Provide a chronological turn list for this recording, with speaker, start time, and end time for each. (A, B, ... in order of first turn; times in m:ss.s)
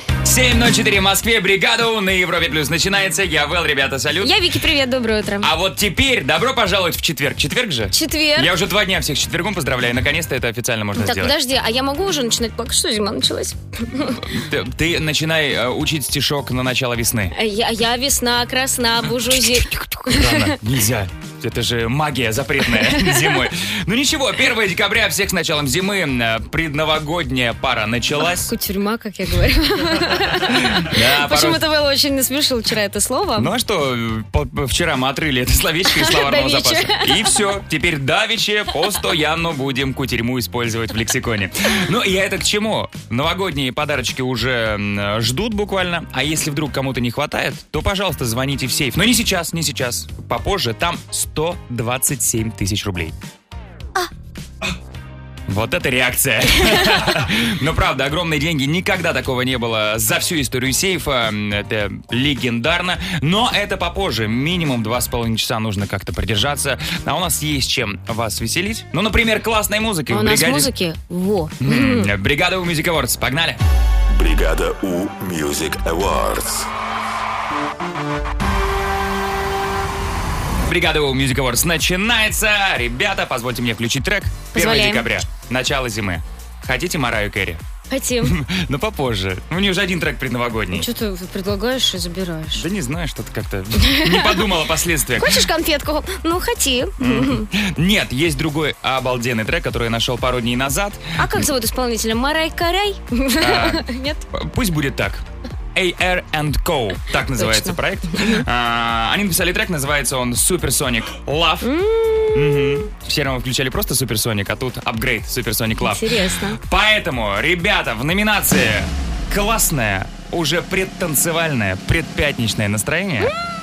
0:00.2-0:04.4 A
0:04.2-0:05.5 B
0:05.4-0:11.3 A
0:07.9-0:08.5 B
0:11.0-0:14.2 B
0:14.2-0:17.3 A
0:17.3-0:20.6 B
0:19.2-0:28.5 A
0:22.7-0:23.5 B
0:28.2-0:33.5 B
0:30.5-0:31.6 A
0:33.4-0:53.2 A
0:35.9-0:37.4 B
0:55.5-1:10.7 A
1:10.1-1:12.1 B
1:11.6-1:13.6 A
1:14.1-1:16.7 C
1:20.6-1:27.6 A
1:24.5-1:25.1 B
1:27.9-1:28.4 B
1:28.2-1:30.9 A
1:30.7-1:32.6 B
1:32.6-1:35.5 A
1:33.8-1:34.4 B
1:35.2-1:37.5 B
1:37.0-1:41.5 A
1:41.2-1:44.3 B
1:43.4-1:45.2 A
1:45.8-1:51.7 A
1:47.4-1:48.4 B
1:51.6-1:52.9 B
1:52.4-1:56.0 A
1:55.8-1:56.6 B
1:56.6-2:03.3 A